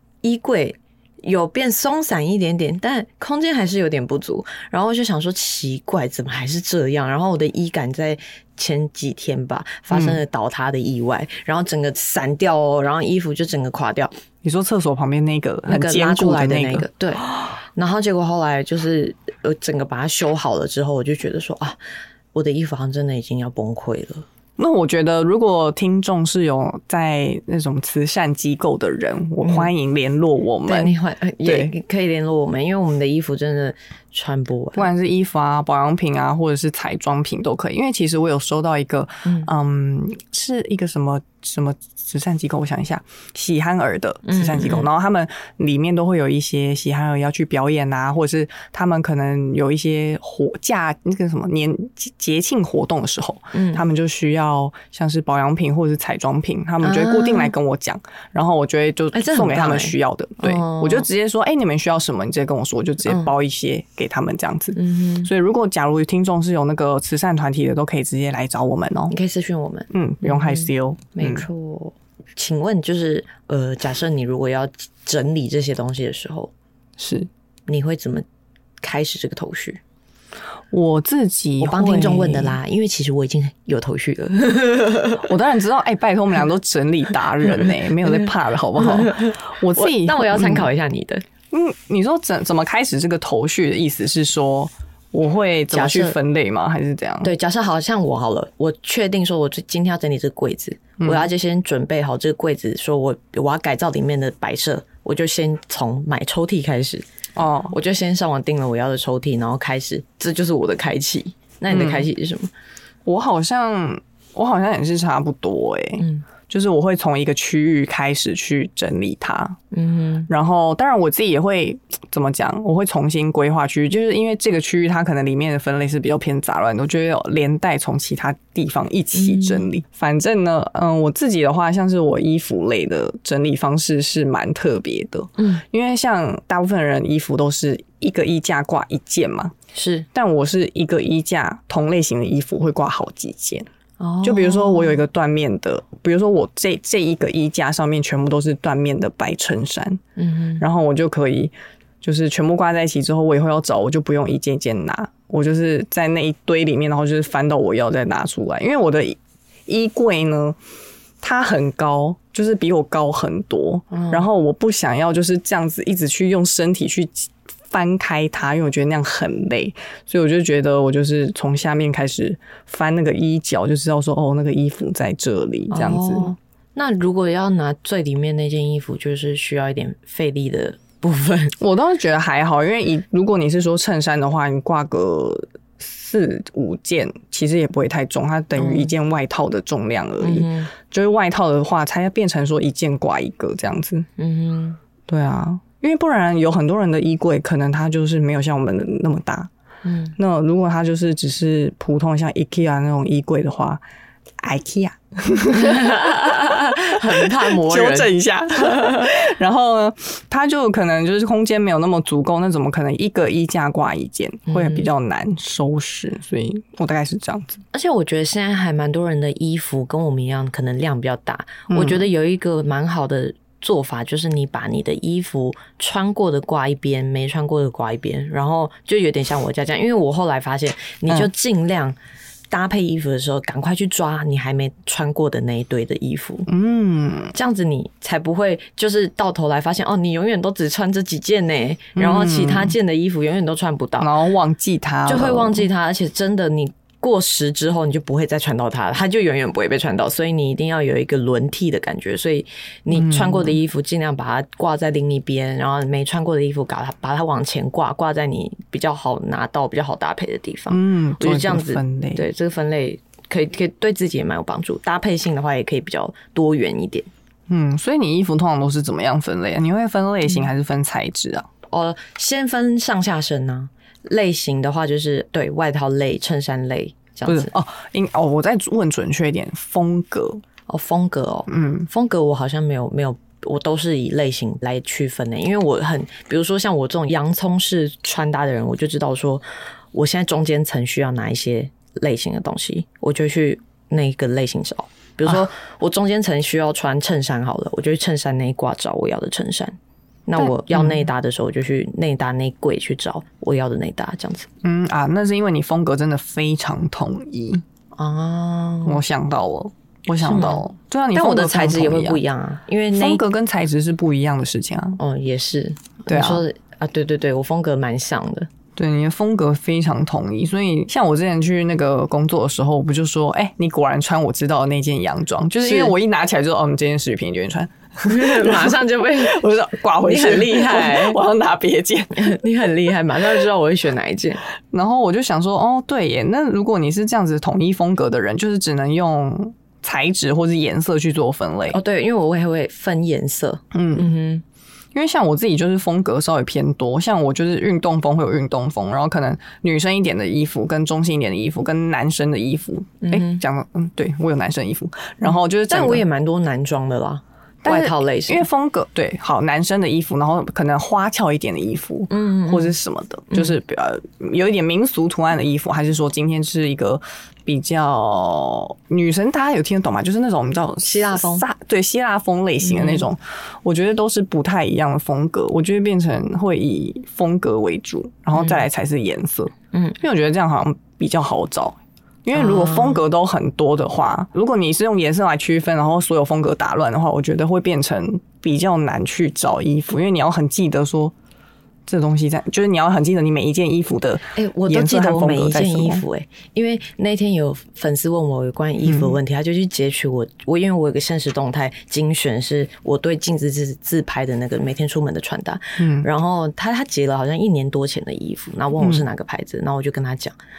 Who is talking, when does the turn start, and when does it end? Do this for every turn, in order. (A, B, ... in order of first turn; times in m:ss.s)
0:00.2-0:14.1 A
0:09.9-0:10.2 B
0:14.4-0:16.9 B
0:15.7-0:21.8 A
0:22.3-0:24.3 A
0:24.6-0:30.9 B
0:29.4-0:29.7 A
0:30.7-0:34.9 A
0:31.4-0:31.7 B
0:34.8-1:09.1 B
0:44.2-0:44.9 A
0:53.5-0:53.8 A
0:56.8-0:57.5 A
0:59.1-1:01.1 A
1:03.1-1:03.3 A
1:04.8-1:05.3 A
1:09.1-1:16.5 A
1:09.9-1:11.5 B
1:17.0-1:17.3 B
1:17.7-1:18.3 A
1:18.8-1:19.8 A
1:20.7-1:22.6 B
1:21.6-1:25.2 A
1:25.2-1:30.7 B
1:28.8-1:31.2 A
1:31.5-1:37.3 B
1:35.7-1:36.2 A
1:37.2-1:47.1 A
1:41.0-1:41.3 B
1:47.4-1:47.7 B
1:47.7-1:52.5 A
1:51.7-1:52.1 B
1:53.0-1:59.6 B
1:56.0-1:56.2 A
1:59.7-2:00.3 A
2:00.3-2:19.5 B
2:09.2-2:09.7 A
2:15.4-2:15.6 A
2:19.7-2:20.1 A
2:20.1-2:23.7 B
2:24.0-2:25.0 A
2:24.2-2:30.0 B
2:30.2-2:30.6 A
2:30.6-2:40.6 B
2:41.2-2:56.3 B
2:43.9-2:44.2 A
2:55.7-3:01.6 A
3:01.6-3:14.1 B
3:08.6-3:08.9 A
3:10.2-3:10.7 A
3:14.2-3:14.8 A
3:15.1-3:19.5 B
3:19.8-3:20.2 A
3:20.2-3:23.8 B
3:24.4-3:37.6 B
3:25.5-3:29.1 A
3:34.5-3:34.9 A
3:37.7-3:52.0 A
3:41.7-3:42.0 B
3:52.5-3:56.5 A
3:56.5-3:57.3 B
3:57.3-4:04.1 A
4:02.0-4:02.8 B
4:04.0-4:05.7 B
4:05.1-4:27.1 A
4:12.9-4:13.6 B
4:20.7-4:22.2 B
4:27.5-4:31.5 B
4:31.7-4:37.5 A
4:37.3-4:40.4 B
4:40.7-4:59.8 A
4:41.5-4:41.9 B
5:00.3-5:04.5 A
5:00.4-5:01.0 B
5:04.6-5:07.6 B
5:08.0-5:09.0 A
5:08.8-5:12.2 B
5:10.2-5:13.2 A
5:13.0-5:15.0 B
5:15.0-5:18.5 A
5:16.1-5:16.4 B
5:18.8-5:32.4 B
5:25.6-5:25.9 A
5:28.1-5:29.4 A
5:30.0-5:31.2 A
5:32.2-5:34.4 A
5:34.7-5:41.8 B
5:41.7-5:44.4 A
5:43.7-5:44.1 B
5:44.9-5:56.0 B
5:53.0-5:53.4 A
5:55.7-5:58.5 A
5:57.6-6:31.1 B
6:02.1-6:02.8 A
6:03.3-6:03.6 A
6:10.8-6:11.4 A
6:12.6-6:13.1 A
6:18.4-6:18.6 A
6:22.3-6:23.0 A
6:31.9-6:36.0 B
6:34.4-6:50.4 A
6:38.9-6:39.2 B
6:45.8-6:46.1 B
6:48.8-6:49.0 B